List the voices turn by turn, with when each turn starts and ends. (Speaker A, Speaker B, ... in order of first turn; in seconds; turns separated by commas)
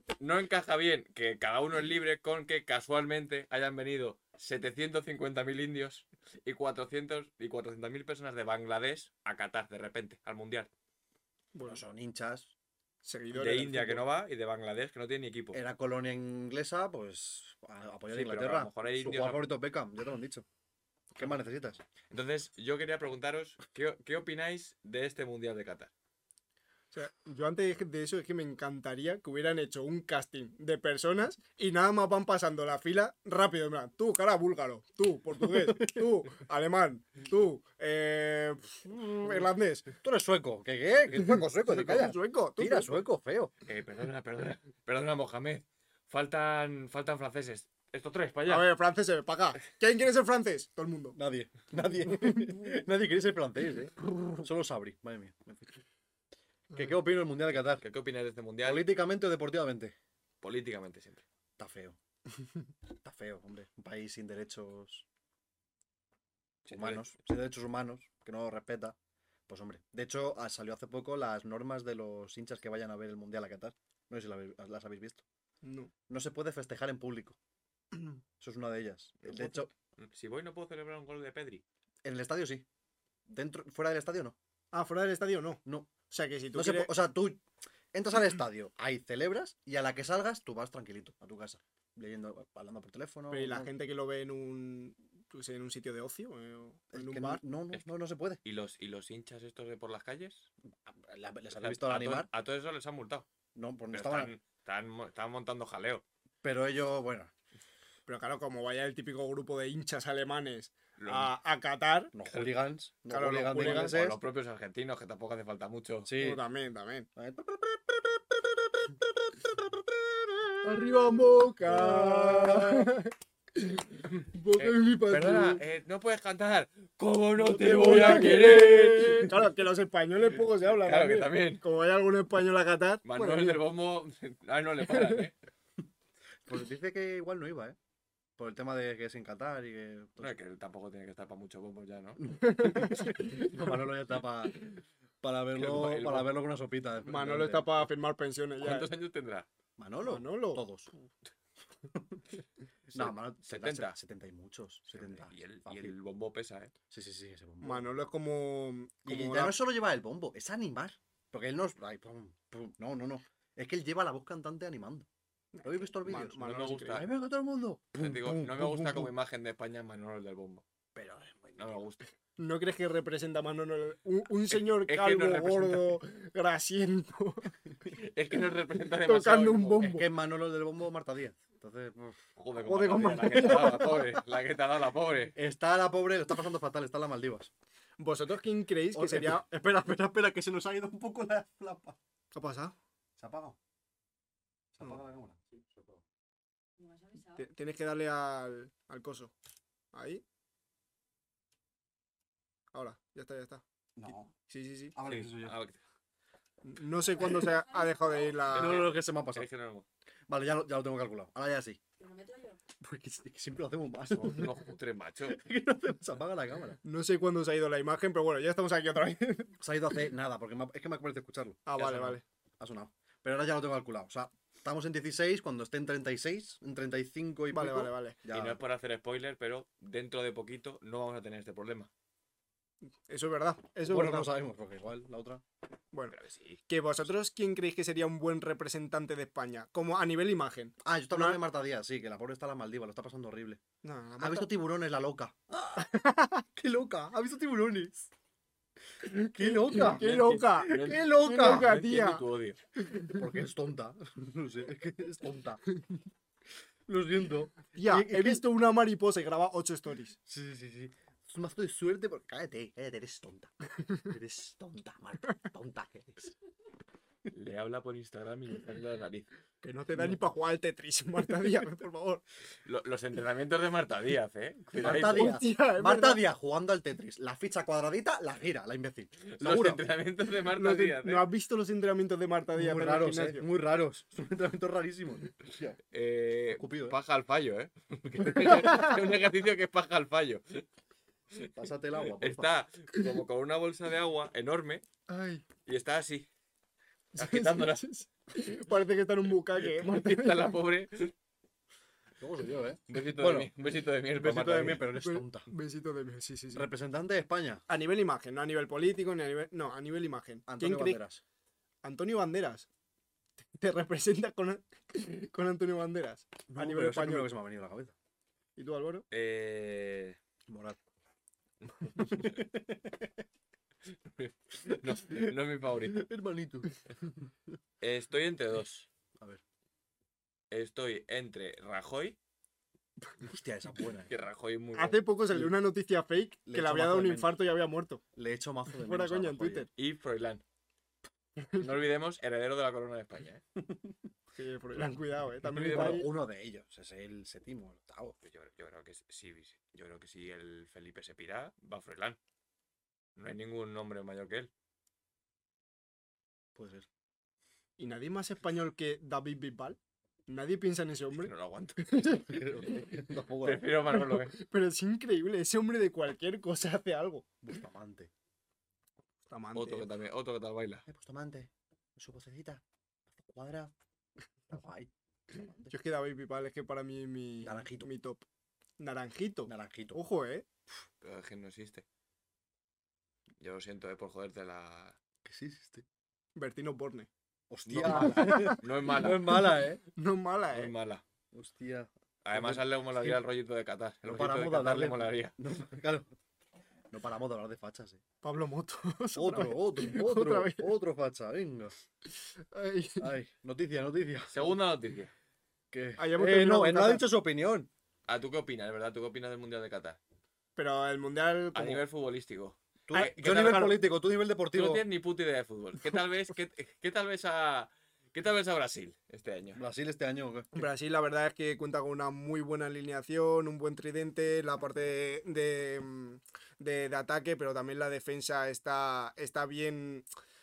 Speaker A: 0.2-10.7, Speaker B: 11.5-11.8, Speaker C: 11.6-12.5, Speaker B: 13.0-14.0, Speaker A: 13.3-15.6, Speaker C: 15.5-20.4, Speaker A: 18.1-19.4, Speaker C: 21.2-21.8, Speaker A: 22.1-25.9, Speaker B: 26.9-39.9, Speaker C: 35.4-36.0, Speaker C: 38.9-43.5, Speaker B: 41.1-43.0, Speaker A: 43.6-48.7, Speaker B: 48.5-51.2, Speaker C: 51.1-55.8, Speaker B: 52.1-52.5, Speaker C: 56.7-57.8, Speaker A: 57.8-58.8, Speaker C: 58.6-59.9, Speaker A: 60.4-61.2, Speaker C: 61.6-62.0, Speaker C: 63.0-65.0, Speaker A: 66.7-67.1, Speaker C: 66.7-69.0, Speaker C: 69.5-75.2, Speaker B: 75.6-75.9, Speaker C: 76.1-77.4, Speaker C: 78.4-79.7, Speaker A: 80.0-81.6, Speaker C: 82.0-82.7, Speaker C: 83.3-84.3, Speaker B: 84.7-86.9, Speaker C: 85.6-85.9, Speaker C: 86.5-87.4, Speaker C: 87.9-93.7, Speaker B: 93.3-97.4, Speaker C: 96.9-98.4, Speaker A: 98.4-100.5, Speaker C: 100.8-102.3, Speaker A: 101.6-103.3, Speaker C: 103.5-104.3, Speaker A: 103.9-106.0, Speaker C: 106.4-107.3, Speaker B: 108.1-112.1, Speaker A: 111.0-111.3, Speaker C: 112.1-114.2, Speaker B: 113.1-114.0, Speaker A: 113.6-116.1, Speaker C: 116.0-116.4, Speaker B: 116.2-117.1, Speaker C: 117.2-122.9, Speaker B: 120.6-125.6, Speaker A: 124.6-129.3, Speaker C: 127.4-129.4, Speaker B: 127.7-128.3, Speaker B: 129.2-133.6, Speaker A: 130.8-131.6, Speaker A: 133.0-135.3, Speaker B: 134.9-135.2, Speaker C: 136.4-137.8, Speaker C: 138.4-140.3, Speaker A: 140.2-142.2, Speaker C: 142.2-144.6, Speaker B: 142.4-143.7, Speaker C: 145.2-147.7, Speaker A: 145.5-146.3, Speaker B: 147.1-148.9, Speaker A: 148.6-149.5, Speaker C: 149.8-150.9, Speaker B: 150.0-150.6, Speaker C: 151.9-152.2, Speaker C: 152.9-155.9, Speaker A: 152.9-154.0, Speaker A: 154.9-156.7, Speaker C: 156.9-157.8, Speaker B: 157.6-159.6, Speaker C: 159.0-165.1, Speaker B: 165.5-167.0, Speaker C: 165.6-169.1, Speaker A: 166.4-167.1, Speaker A: 167.9-170.6, Speaker C: 170.9-171.8, Speaker A: 171.6-172.0, Speaker B: 172.4-177.6, Speaker A: 174.5-176.0, Speaker A: 177.9-179.9, Speaker B: 179.0-180.0, Speaker C: 179.8-182.2, Speaker A: 182.4-185.3, Speaker B: 182.6-184.2, Speaker C: 185.3-187.5, Speaker B: 188.0-189.4, Speaker C: 188.9-192.0, Speaker B: 192.3-192.8, Speaker C: 193.2-193.6, Speaker C: 194.7-195.9, Speaker D: 196.8-197.4, Speaker B: 197.4-199.3, Speaker B: 199.9-200.2, Speaker B: 202.7-203.6, Speaker C: 204.0-204.3, Speaker B: 204.5-204.9, Speaker C: 204.9-205.6, Speaker A: 205.1-205.8, Speaker B: 206.6-208.9, Speaker D: 207.3-208.3, Speaker C: 208.4-209.5, Speaker A: 208.5-209.8, Speaker C: 210.3-211.8, Speaker D: 212.0-212.6, Speaker C: 212.8-214.5, Speaker A: 214.1-215.4, Speaker C: 215.3-216.8, Speaker B: 216.8-219.5, Speaker C: 219.6-221.6, Speaker B: 221.7-222.2, Speaker A: 221.8-222.2, Speaker C: 222.6-228.6, Speaker B: 227.5-228.2, Speaker A: 228.3-231.9, Speaker B: 233.1-234.3, Speaker C: 233.8-235.4, Speaker A: 236.1-236.6, Speaker B: 236.7-241.4, Speaker C: 240.8-243.6, Speaker B: 243.8-244.5, Speaker C: 244.2-245.9, Speaker B: 245.8-246.4, Speaker C: 246.5-248.1, Speaker B: 249.0-252.2, Speaker C: 249.1-250.1, Speaker A: 249.7-252.6, Speaker C: 250.7-251.7, Speaker B: 252.8-253.2, Speaker C: 253.0-255.6, Speaker C: 256.9-258.4, Speaker B: 257.7-260.2, Speaker C: 260.2-263.5, Speaker C: 264.1-266.3, Speaker A: 267.3-269.3, Speaker B: 269.6-272.2, Speaker A: 272.6-275.3, Speaker C: 274.8-279.9, Speaker B: 274.9-276.2, Speaker A: 279.3-281.2, Speaker B: 280.5-283.4, Speaker C: 282.5-285.8, Speaker A: 285.9-290.6, Speaker C: 286.5-287.0, Speaker C: 288.2-288.9, Speaker C: 291.5-292.5, Speaker A: 292.1-294.8, Speaker B: 295.1-295.4, Speaker A: 295.6-296.3, Speaker B: 297.1-300.5, Speaker A: 297.2-297.9, Speaker A: 299.6-301.1, Speaker C: 302.2-303.5, Speaker A: 302.9-304.9, Speaker C: 304.1-305.5, Speaker B: 305.0-306.6, Speaker C: 306.5-307.6, Speaker B: 307.7-311.0, Speaker C: 310.5-311.2, Speaker B: 311.8-312.7, Speaker B: 313.6-317.3, Speaker C: 316.5-317.9, Speaker B: 318.6-319.0, Speaker A: 319.1-320.2, Speaker C: 320.5-320.8, Speaker C: 322.0-323.1, Speaker A: 324.1-326.1, Speaker C: 324.6-325.3, Speaker C: 325.9-327.3, Speaker A: 327.8-328.9, Speaker A: 330.5-332.2, Speaker C: 333.2-334.1, Speaker A: 334.1-335.0, Speaker B: 334.8-338.0, Speaker C: 336.4-337.3, Speaker C: 338.1-339.7, Speaker B: 338.8-339.7, Speaker A: 339.8-340.4, Speaker A: 341.6-343.4, Speaker C: 343.6-343.9, Speaker B: 344.3-346.1, Speaker A: 345.4-346.1, Speaker C: 345.6-348.2, Speaker A: 348.2-352.2, Speaker A: 353.1-354.5, Speaker C: 356.5-356.9, Speaker B: 357.8-362.2, Speaker A: 361.2-361.8, Speaker C: 362.1-363.7, Speaker A: 363.4-364.3, Speaker B: 363.9-367.2, Speaker C: 367.4-368.1, Speaker B: 369.3-369.9, Speaker A: 369.5-370.8, Speaker C: 370.9-373.7, Speaker C: 374.5-375.7, Speaker B: 375.7-378.2, Speaker C: 377.4-377.9, Speaker B: 378.8-380.4, Speaker C: 379.5-380.0, Speaker A: 381.0-381.8, Speaker A: 383.4-384.9, Speaker C: 385.2-385.8, Speaker B: 386.4-387.1, Speaker C: 387.5-389.8, Speaker A: 387.6-389.4, Speaker B: 387.9-388.6, Speaker B: 389.9-390.7, Speaker A: 390.5-391.0, Speaker C: 391.3-393.2, Speaker A: 392.2-395.3, Speaker C: 394.0-396.1, Speaker C: 396.9-398.0, Speaker B: 398.2-400.7, Speaker C: 399.1-401.7, Speaker B: 402.5-403.1, Speaker C: 403.0-404.4, Speaker A: 404.3-405.1, Speaker C: 405.7-407.7, Speaker B: 406.0-407.0, Speaker A: 408.1-410.0, Speaker B: 410.6-411.8, Speaker A: 411.5-413.8, Speaker C: 412.9-414.8, Speaker A: 414.5-419.6, Speaker C: 419.5-420.5, Speaker B: 420.5-430.1